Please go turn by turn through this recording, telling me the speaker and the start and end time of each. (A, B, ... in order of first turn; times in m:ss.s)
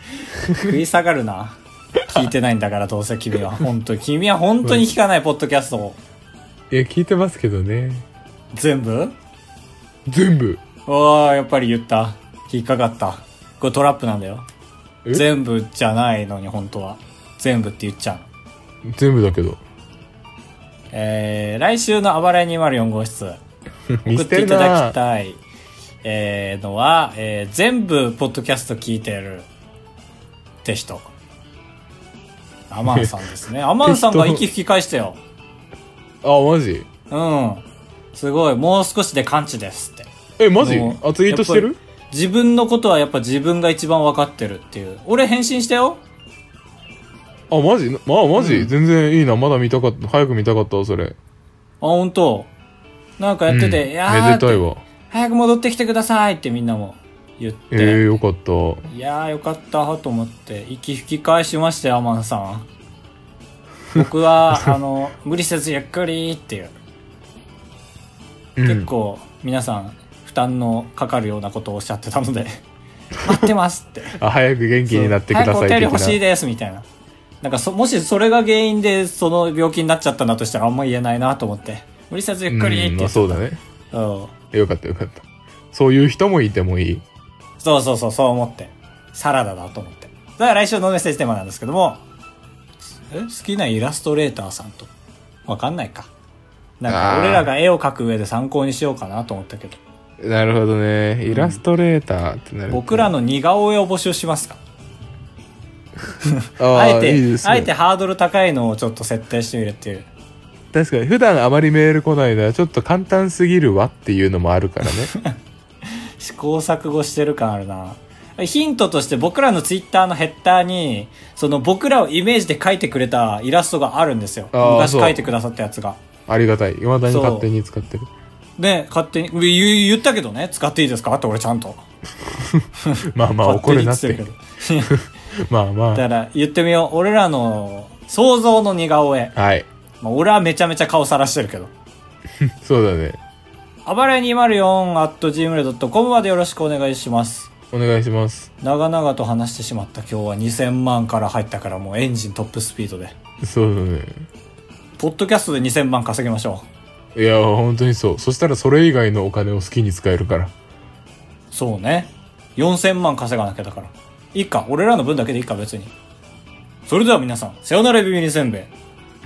0:00.4-0:00.7 A
0:00.5-0:06.0 B
0:06.7-0:08.0 A
0:08.5-0:09.1 B
0:10.0-0:10.6 A
0:10.8-0:14.4 B
0:15.1-0:18.3 B
0:18.8-0:19.6 A
0:20.9-0:23.4 B
0:23.9-0:25.0 A
0:24.0-0:25.4 B
0:26.0-0:29.5 B
0:30.6-0:31.1 B
0:32.7-0:35.2 B
0:32.8-0:33.2 A
0:33.8-0:34.4 A
0:36.2-0:36.9 A
0:37.1-0:46.0 B
0:40.4-0:41.8 A
0:47.5-0:51.2 A
0:48.3-0:48.7 B
0:51.8-0:52.5 B
0:53.2-0:58.0 B
0:53.5-0:54.8 A
0:57.7-0:58.9 A
0:58.9-1:02.6 B
1:03.9-1:06.7 B
1:08.6-1:08.9 A
1:08.6-1:12.6 B
1:13.2-1:14.2 B
1:14.2-1:16.2 A
1:14.8-1:16.8 B
1:17.4-1:24.3 B
1:22.5-1:23.6 A
1:24.5-1:27.0 A
1:27.6-1:32.0 B
1:33.1-1:34.9 B
1:35.5-1:36.1 B
1:36.8-1:39.8 B
1:36.9-1:37.5 A
1:40.2-1:43.1 A
1:41.3-1:41.6 B
1:42.7-1:44.6 B
1:46.2-1:50.1 B
1:46.6-1:47.7 A
1:50.7-1:55.1 A
1:56.2-2:06.0 B
2:04.5-2:05.3 A
2:06.3-2:08.1 A
2:07.1-2:07.5 B
2:08.6-2:11.8 B
2:12.4-2:14.2 A
2:12.8-2:14.9 B
2:14.8-2:16.0 A
2:15.9-2:19.3 B
2:19.4-2:19.7 A
2:20.0-2:21.7 B
2:22.4-2:23.2 A
2:23.8-2:27.5 B
2:27.7-2:28.5 A
2:28.6-2:33.2 B
2:33.4-2:34.2 A
2:35.0-2:36.7 B
2:37.1-2:40.5 A
2:41.5-2:45.9 B
2:46.9-2:48.7 B